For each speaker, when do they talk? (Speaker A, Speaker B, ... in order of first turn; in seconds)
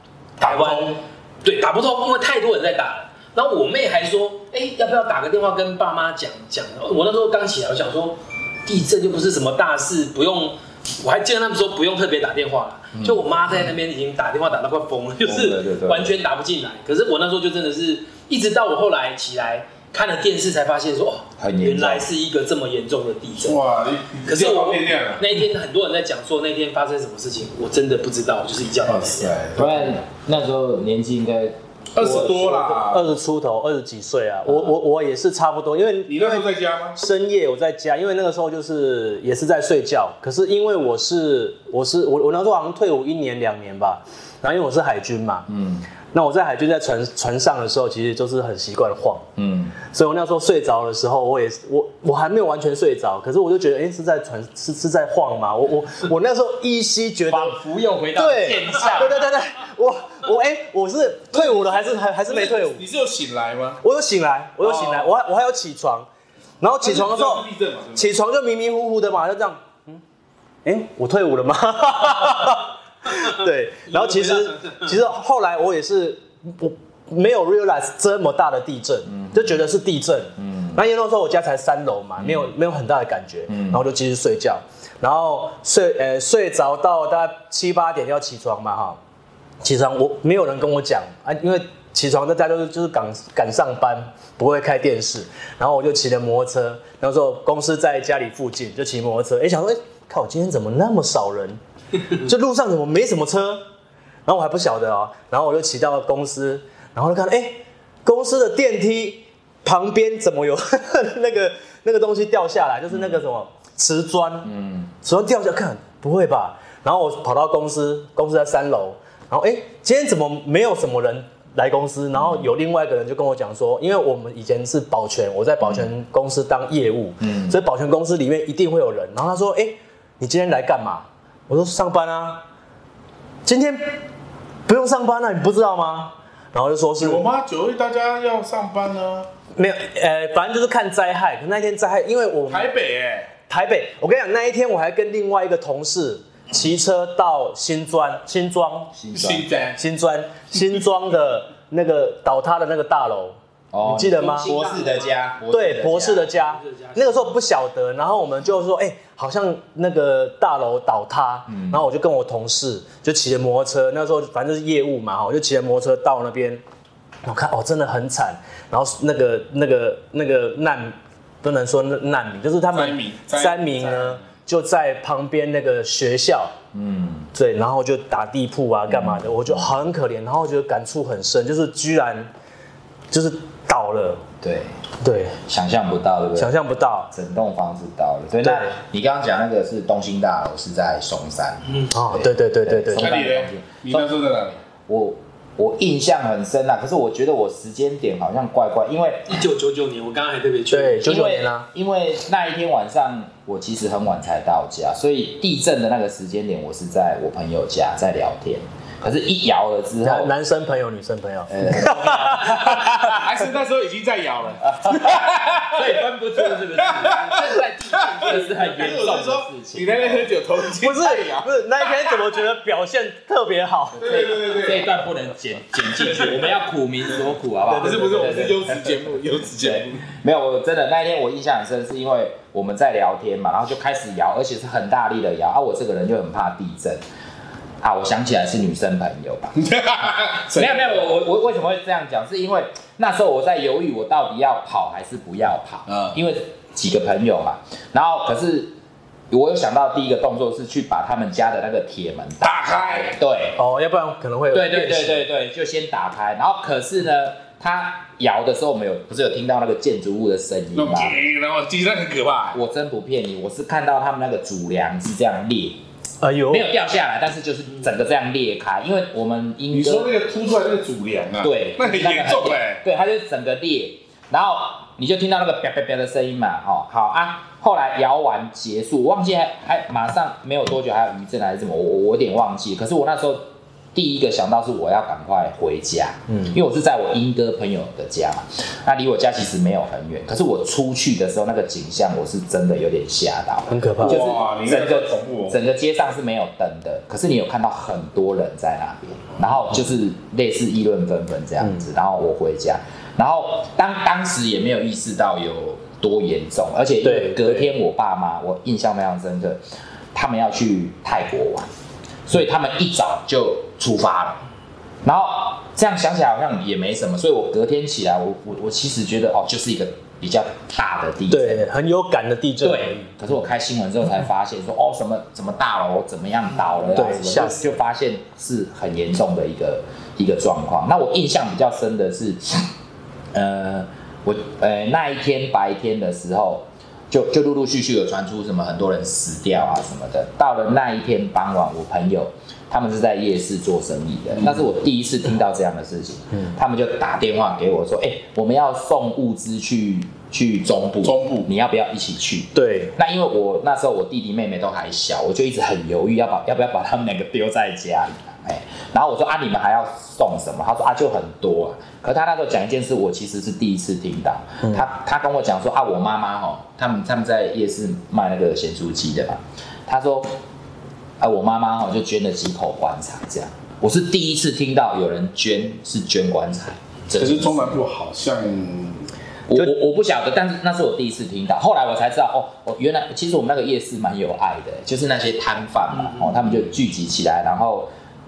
Speaker A: 0.4-1.0, 23.4-25.3, 28.9-30.0, 31.9-33.1, 36.1-37.0, 61.3-63.8, 64.6-65.2, 66.8-68.2, 137.0-139.3, 142.5-143.3, 149.1-149.8, 172.7-174.2, 192.9-194.6, 212.4-221.5, 224.0-224.9, 226.0-226.5, 227.7-230.1, 239.6-241.1, 245.9-246.2, 252.4-253.1, 260.7-262.6, 269.7-272.8, 294.0-295.6, 351.0-351.5, 377.1-379.1
Speaker B: 0.4-23.6, 24.2-29.4, 73.9-75.0, 154.2-155.3, 156.1-157.4, 199.3-201.2, 217.2-219.1
Speaker C: 13.0-13.2, 15.2-16.1, 21.4-22.1, 29.6-32.6, 34.5-34.7, 45.5-45.9, 49.4-49.8, 57.3-59.2, 79.1-79.6, 80.4-80.8, 82.2-82.5, 83.5-83.8, 112.9-113.2, 114.4-114.9, 122.2-122.5, 127.2-127.6, 148.9-149.5, 153.7-156.3, 161.5-161.9, 176.7-177.3, 178.9-179.7, 184.4-184.8, 185.4-186.6, 187.1-194.1, 194.9-199.4, 201.0-210.3, 211.5-213.2, 214.7-220.3, 224.0-237.0, 237.8-239.6, 240.5-248.8, 249.3-253.6, 254.5-261.2, 262.5-265.8, 266.5-270.1, 271.4-309.6, 310.1-311.7, 312.3-314.4, 315.0-321.7, 322.6-332.7, 333.3-370.4, 371.2-377.8, 379.5-387.9
Speaker D: 32.4-45.5, 46.1-49.3, 49.9-57.6, 58.1-62.8, 63.8-66.1, 66.6-70.0, 70.7-89.0, 89.6-103.7, 104.3-132.4, 133.4-134.0, 134.7-137.2, 139.6-142.7, 143.5-148.9, 149.8-154.5, 155.5-166.6, 167.2-176.5, 177.3-182.3, 183.1-184.2, 185.0-185.4, 186.3-187.1, 188.4-188.8, 191.9-193.2, 200.7-201.7, 210.0-212.8, 220.8-224.4, 227.7-228.5, 253.6-255.2, 266.2-266.7, 286.3-286.6, 293.7-294.2, 307.0-307.7, 321.3-323.1, 326.9-327.7, 352.5-352.9